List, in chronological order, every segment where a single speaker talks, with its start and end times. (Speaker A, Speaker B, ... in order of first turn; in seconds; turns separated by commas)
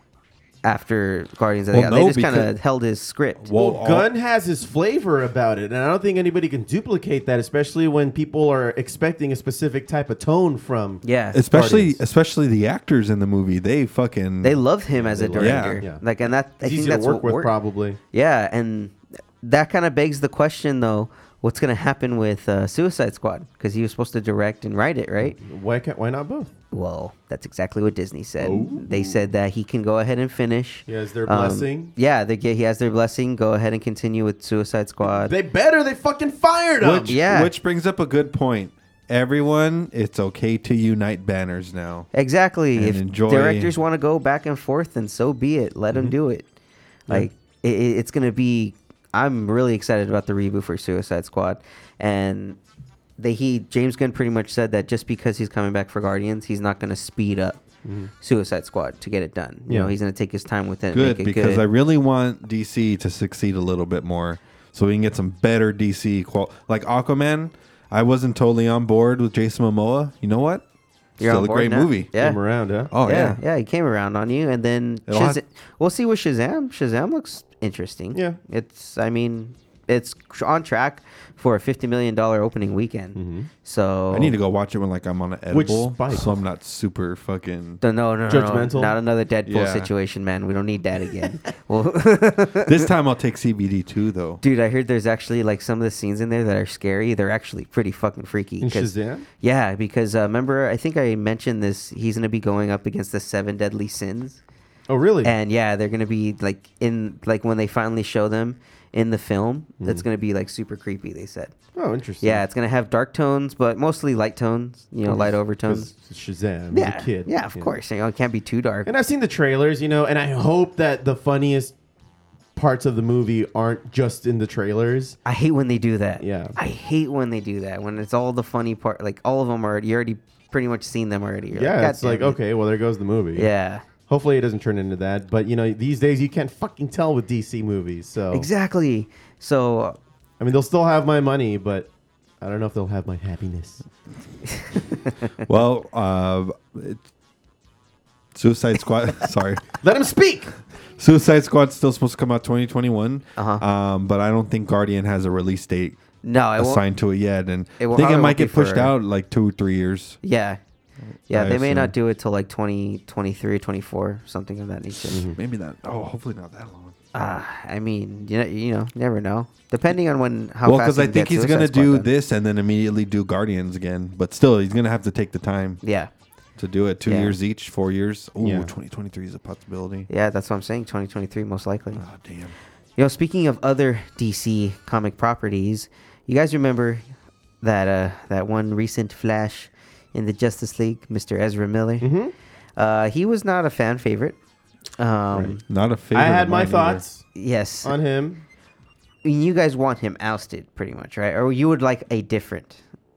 Speaker A: 0.6-3.5, Speaker B: 1.7-2.5, Speaker B: 3.4-4.1, Speaker C: 3.5-12.0, Speaker A: 11.0-11.4, Speaker B: 11.3-14.6, Speaker A: 14.4-17.5, Speaker C: 14.9-18.0, Speaker B: 15.3-15.8, Speaker A: 18.1-25.4, Speaker C: 25.2-26.5, Speaker A: 26.7-35.3, Speaker C: 28.4-29.3, Speaker C: 30.9-31.9, Speaker C: 35.0-37.1, Speaker B: 36.8-42.1, Speaker A: 37.1-37.5, Speaker A: 42.1-46.5, Speaker B: 42.7-43.7, Speaker A: 47.1-52.6, Speaker A: 53.2-57.6, Speaker C: 57.8-58.1, Speaker A: 58.2-61.6, Speaker C: 59.7-59.9, Speaker B: 60.9-70.6, Speaker A: 71.2-72.4, Speaker B: 71.2-72.1, Speaker C: 72.2-72.9, Speaker B: 72.9-73.4, Speaker A: 73.0-84.3, Speaker B: 75.1-75.4, Speaker C: 83.1-83.5, Speaker B: 84.1-87.8, Speaker C: 85.5-86.3, Speaker A: 87.8-92.9, Speaker C: 88.3-89.0, Speaker B: 89.5-89.9, Speaker B: 92.6-94.4, Speaker A: 94.4-104.4, Speaker C: 98.6-99.2, Speaker C: 104.9-105.3, Speaker A: 105.2-111.5, Speaker C: 111.7-112.4, Speaker A: 112.2-115.9, Speaker C: 115.0-117.7, Speaker A: 116.7-118.9, Speaker C: 118.8-121.7, Speaker C: 122.5-125.2, Speaker A: 125.2-132.4, Speaker C: 126.2-126.5, Speaker C: 131.5-133.5, Speaker A: 133.3-133.8, Speaker C: 134.1-138.5, Speaker A: 138.3-140.0, Speaker C: 140.4-141.9, Speaker C: 142.4-143.8, Speaker A: 144.6-145.1, Speaker B: 145.4-147.0, Speaker B: 148.3-149.7, Speaker C: 149.8-150.5, Speaker B: 151.0-156.0, Speaker A: 153.4-153.6, Speaker A: 156.2-156.8, Speaker B: 156.6-160.2, Speaker A: 157.8-158.9, Speaker A: 160.2-160.6, Speaker B: 161.3-161.9, Speaker A: 161.3-165.2, Speaker B: 165.1-166.9, Speaker A: 167.1-172.1, Speaker B: 170.6-175.8, Speaker A: 175.8-176.1, Speaker B: 176.6-180.1, Speaker A: 177.0-177.3, Speaker C: 178.4-178.7, Speaker A: 180.1-182.0, Speaker B: 181.9-182.5, Speaker A: 183.0-187.0, Speaker A: 187.6-192.1, Speaker C: 192.0-192.3, Speaker A: 192.8-194.4, Speaker A: 195.0-195.6, Speaker B: 195.7-197.0, Speaker C: 196.1-197.3, Speaker A: 197.3-197.9, Speaker C: 197.8-198.4, Speaker A: 199.2-202.8